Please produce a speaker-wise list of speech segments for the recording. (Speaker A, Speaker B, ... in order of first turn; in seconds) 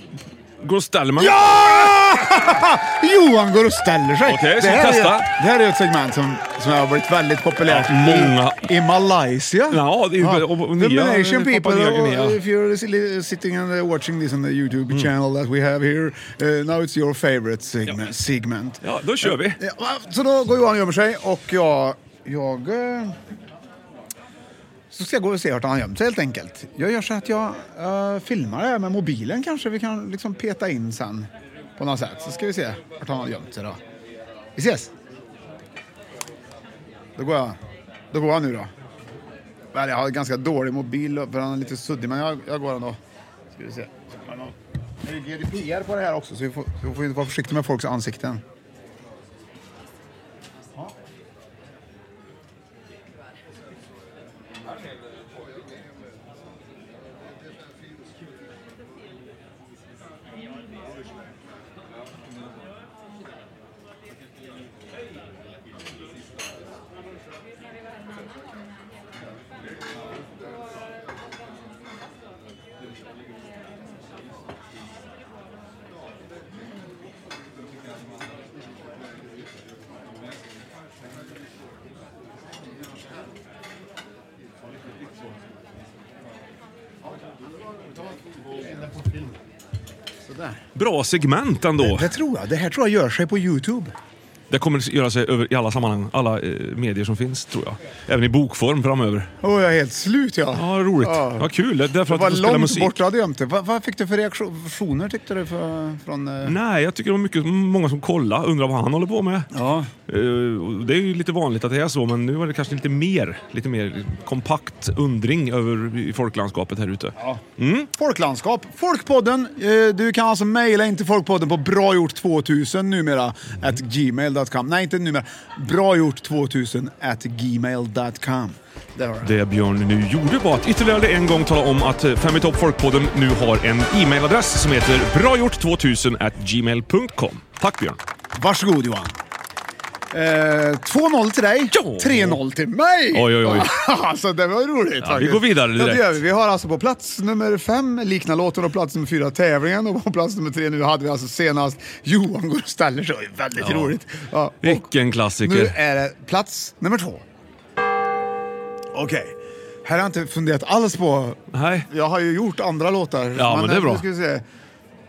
Speaker A: 0.6-1.9, 4.3-5.3, 7.7-8.7, 9.7-12.4, 18.8-19.6, 90.8-92.1, 94.5-99.3, 100.5-103.0, 106.5-109.5, 110.1-117.9, 129.2-138.0, 141.7-142.4, 143.1-143.7, 145.0-146.2, 153.6-153.9, 154.6-155.8, 161.5-161.9, 163.4-164.0
Speaker B: 1.2-23.2, 24.9-33.8, 34.6-34.9, 37.2-37.6, 38.1-38.7, 39.7-43.0, 43.5-48.4, 88.6-89.2, 90.2-90.6, 91.8-93.9, 99.4-101.5, 102.1-106.6, 109.5-109.9, 117.2-117.4, 118.0-129.3, 138.4-139.1, 140.1-154.9, 155.4-157.2, 158.9-164.4